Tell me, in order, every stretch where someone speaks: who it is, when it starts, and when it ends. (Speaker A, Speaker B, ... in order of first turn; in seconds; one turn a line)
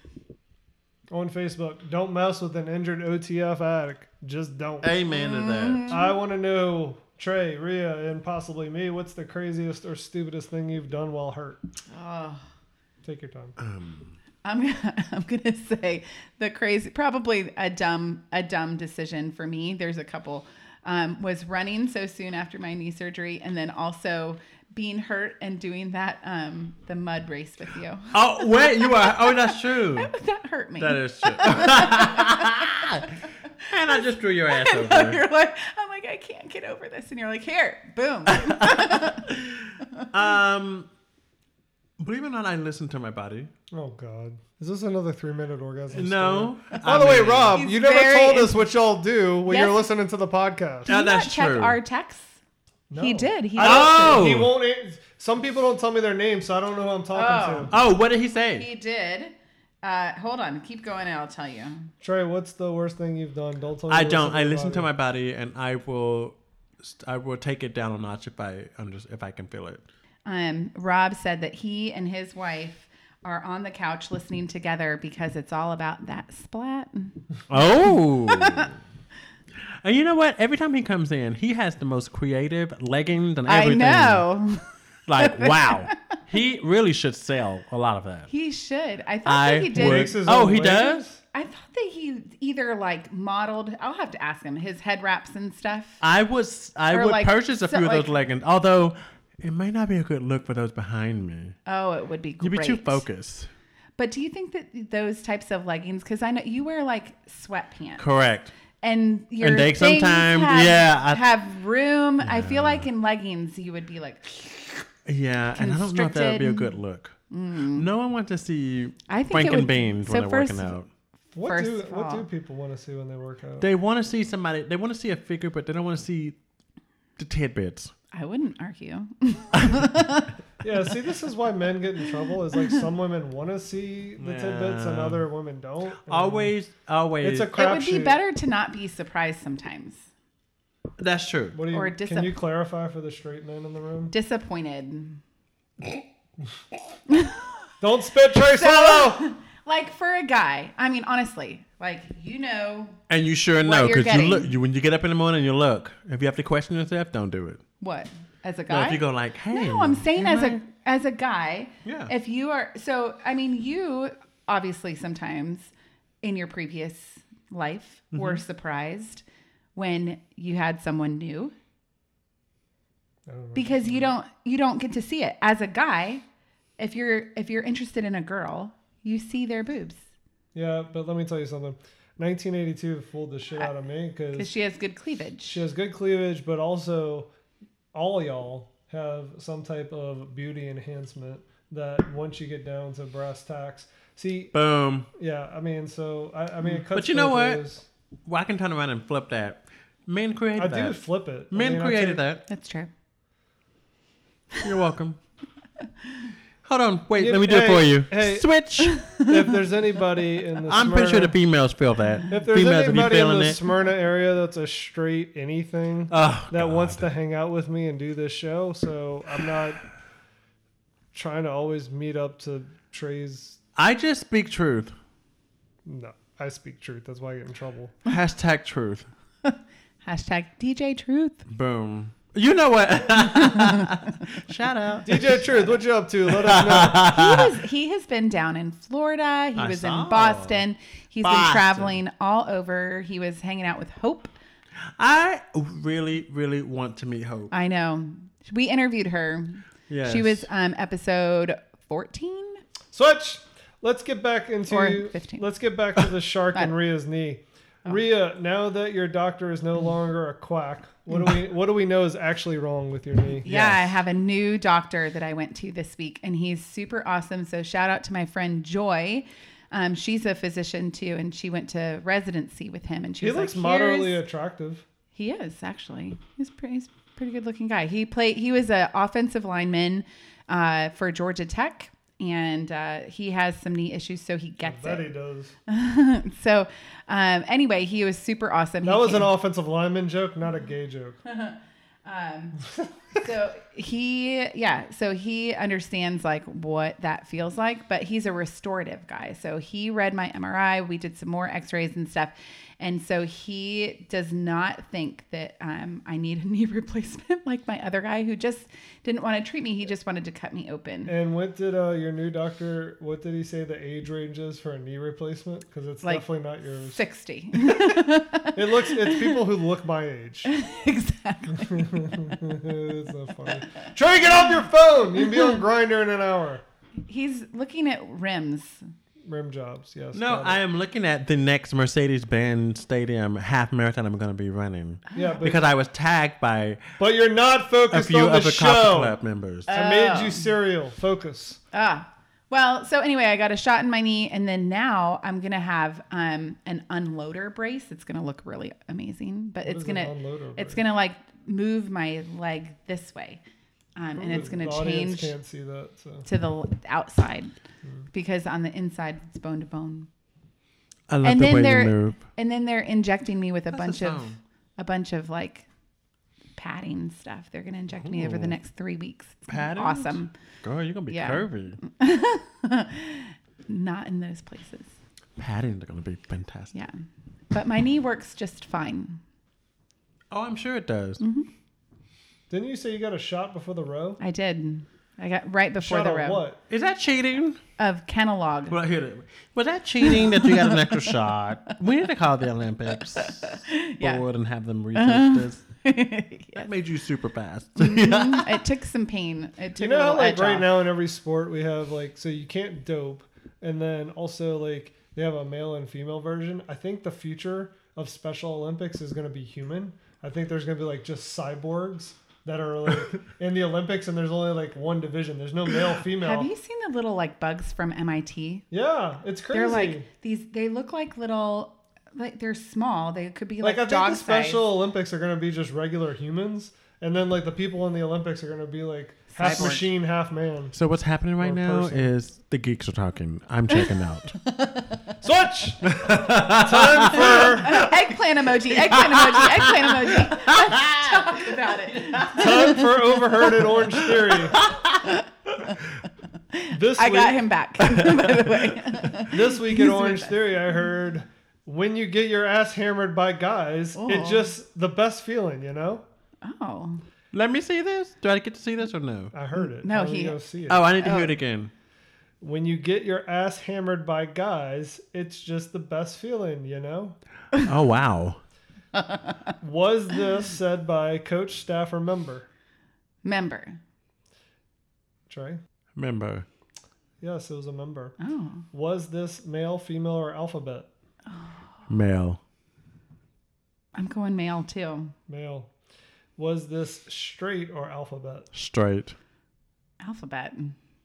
Speaker A: 1.1-4.9
Speaker B: 4.8-6.0
Speaker C: 5.1-6.1
Speaker A: 5.9-11.6
Speaker C: 11.9-12.4
Speaker A: 13.0-13.6
Speaker B: 13.6-14.1
Speaker C: 14.4-33.1
Speaker B: 28.1-30.1
Speaker B: 30.8-33.0
Speaker B: 33.6-35.2
Speaker C: 34.5-39.3
Speaker B: 38.3-39.6
Speaker B: 40.1-40.9
Speaker B: 42.0-43.5
Speaker A: 43.7-50.9
Speaker B: 45.9-47.6
Speaker C: 47.5-48.6
Speaker C: 49.5-49.8
Speaker C: 50.9-52.4
Speaker B: 50.9-51.8
Speaker A: 52.9-57.7
Speaker C: 53.0-54.3
Speaker B: 53.6-54.5
Speaker C: 57.1-57.8
Speaker B: 57.7-58.7
Speaker C: 58.5-61.9
Speaker A: 62.0-64.9
Speaker B: 63.9-69.8
Speaker C: 70.2-77.2
Speaker B: 77.5-78.7
Speaker C: 78.2-78.7
Speaker B: 79.8-84.3
Speaker C: 83.5-84.6
Speaker B: 85.1-88.3
Speaker C: 85.2-86.0
Speaker C: 88.3-90.2
Speaker B: 89.2-91.0
Speaker A: 89.7-91.2
Speaker C: 91.2-96.0
Speaker B: 96.0-101.5
Speaker C: 96.9-98.1
Speaker C: 101.7-103.0
Speaker B: 102.4-103.5
Speaker C: 104.0-108.0
Speaker B: 108.0-108.5
Speaker C: 108.8-114.8
Speaker B: 109.4-111.3
Speaker B: 112.2-112.9
Speaker B: 115.0-117.2
Speaker C: 115.5-116.7
Speaker C: 117.3-117.9
Speaker B: 117.7-120.9
Speaker C: 119.1-120.7
Speaker A: 121.3-123.7
Speaker C: 121.4-122.3
Speaker B: 123.6-126.3
Speaker B: 127.2-127.9
Speaker C: 128.1-130.3
Speaker A: 130.6-136.5
Speaker B: 134.2-135.2
Speaker B: 136.1-137.5
Speaker A: 137.2-138.2
Speaker C: 137.5-140.0
Speaker B: 141.0-141.6
Speaker A: 141.5-144.1
Speaker C: 141.7-142.3
Speaker C: 144.1-145.2
Speaker C: 147.1-147.4
Speaker A: 147.8-149.2
Speaker C: 148.4-153.0
Speaker B: 153.1-157.6
Speaker C: 153.6-154.5
Speaker C: 157.8-165.7
Speaker B: 158.7-160.6
Speaker B: 161.8-162.1
Speaker C: 166.2-169.2
Speaker B: 168.1-168.4
Speaker C: 169.7-171.5
Speaker A: 173.2-174.1
Speaker C: 173.5-176.2
Speaker C: 176.8-180.0
Speaker A: 180.5-184.5
Speaker C: 184.3-185.6
Speaker A: 185.4-187.3
Speaker A: 187.9-194.5
Speaker B: 194.5-195.1
Speaker A: 195.2-197.9
Speaker B: 196.9-197.6
Speaker B: 198.2-202.4
Speaker A: 200.6-202.2
Speaker C: 202.5-202.9
Speaker B: 204.6-205.2
Speaker B: 206.6-209.1
Speaker A: 207.2-208.5
Speaker C: 208.8-209.3
Speaker A: 209.2-211.3
Speaker B: 210.7-213.6
Speaker A: 212.3-219.8
Speaker B: 216.1-217.1
Speaker A: 221.1-223.6
Speaker B: 223.8-224.9
Speaker A: 225.8-227.9
Speaker B: 228.1-229.1
Speaker C: 229.4-231.4
Speaker B: 231.5-235.6
Speaker C: 233.5-233.8
Speaker A: 235.0-237.1
Speaker B: 236.3-237.5
Speaker C: 237.1-244.3
Speaker B: 239.6-240.6
Speaker B: 241.2-242.0
Speaker B: 245.0-247.5
Speaker C: 247.5-252.6
Speaker B: 249.9-250.4
Speaker A: 252.9-263.9
Speaker C: 254.7-255.5
Speaker C: 263.4-274.2
Speaker A: 273.2-274.8
Speaker C: 275.1-285.1
Speaker A: 284.6-285.5
Speaker C: 285.7-289.3
Speaker A: 288.8-291.2
Speaker C: 291.2-311.1
Speaker A: 311.1-317.0
Speaker C: 316.0-319.4
Speaker A: 317.5-320.5
Speaker C: 320.4-322.2
Speaker A: 321.6-326.6
Speaker C: 327.1-328.8
Speaker A: 329.2-330.6
Speaker B: 330.1-336.8
Speaker C: 335.1-335.4
Speaker A: 335.1-335.7
Speaker A: 337.0-341.6
Speaker B: 337.9-339.7
Speaker C: 339.7-340.5
Speaker C: 341.7-353.4
Speaker A: 349.6-350.8
Speaker C: 353.9-355.3
Speaker B: 354.2-354.4
Speaker A: 354.3-356.3
Speaker C: 356.2-357.5
Speaker C: 358.1-360.1
Speaker B: 361.1-362.2
Speaker C: 361.2-364.2
Speaker B: 363.7-364.4
Speaker C: 364.8-365.7
Speaker C: 366.6-370.3
Speaker B: 367.9-368.6
Speaker B: 369.5-371.8
Speaker C: 371.1-374.9
Speaker B: 375.4-376.7
Speaker C: 377.5-379.2
Speaker B: 380.3-381.2
Speaker C: 381.2-381.5
Speaker A: 382.5-384.2
Speaker C: 384.2-386.4
Speaker A: 385.8-386.6
Speaker B: 386.7-387.6
Speaker C: 387.8-388.8
Speaker B: 388.7-395.6
Speaker C: 390.0-391.0
Speaker C: 393.1-394.2
Speaker C: 394.9-396.7
Speaker B: 396.6-398.6
Speaker C: 397.8-400.7
Speaker A: 399.8-416.5
Speaker C: 416.2-418.6
Speaker A: 418.7-420.1
Speaker C: 419.5-424.7
Speaker A: 423.6-430.8
Speaker C: 429.3-429.9
Speaker B: 429.4-429.7
Speaker B: 430.7-434.4
Speaker A: 431.4-432.1
Speaker C: 434.4-435.0
Speaker A: 435.2-437.9
Speaker B: 435.9-437.9
Speaker C: 437.1-443.1
Speaker B: 438.7-441.2
Speaker A: 442.3-444.6
Speaker B: 444.5-445.0
Speaker C: 445.0-445.8
Speaker C: 446.5-450.7
Speaker A: 446.7-447.5
Speaker B: 447.8-448.8
Speaker A: 449.2-456.0
Speaker C: 453.9-454.5
Speaker C: 456.4-457.0
Speaker B: 457.3-459.3
Speaker A: 459.3-460.9
Speaker C: 459.6-460.4
Speaker B: 460.7-461.7
Speaker C: 461.0-461.3
Speaker A: 462.4-467.2
Speaker B: 467.6-468.4
Speaker C: 468.9-469.5
Speaker A: 469.6-472.5
Speaker C: 473.2-473.8
Speaker A: 475.3-475.6
Speaker B: 475.9-476.4
Speaker A: 477.2-478.1
Speaker C: 478.2-478.6
Speaker A: 478.7-480.9
Speaker C: 481.3-481.6
Speaker B: 481.9-482.4
Speaker C: 483.9-485.1
Speaker A: 485.3-485.7
Speaker A: 486.4-488.5
Speaker B: 488.5-489.1
Speaker C: 490.0-490.7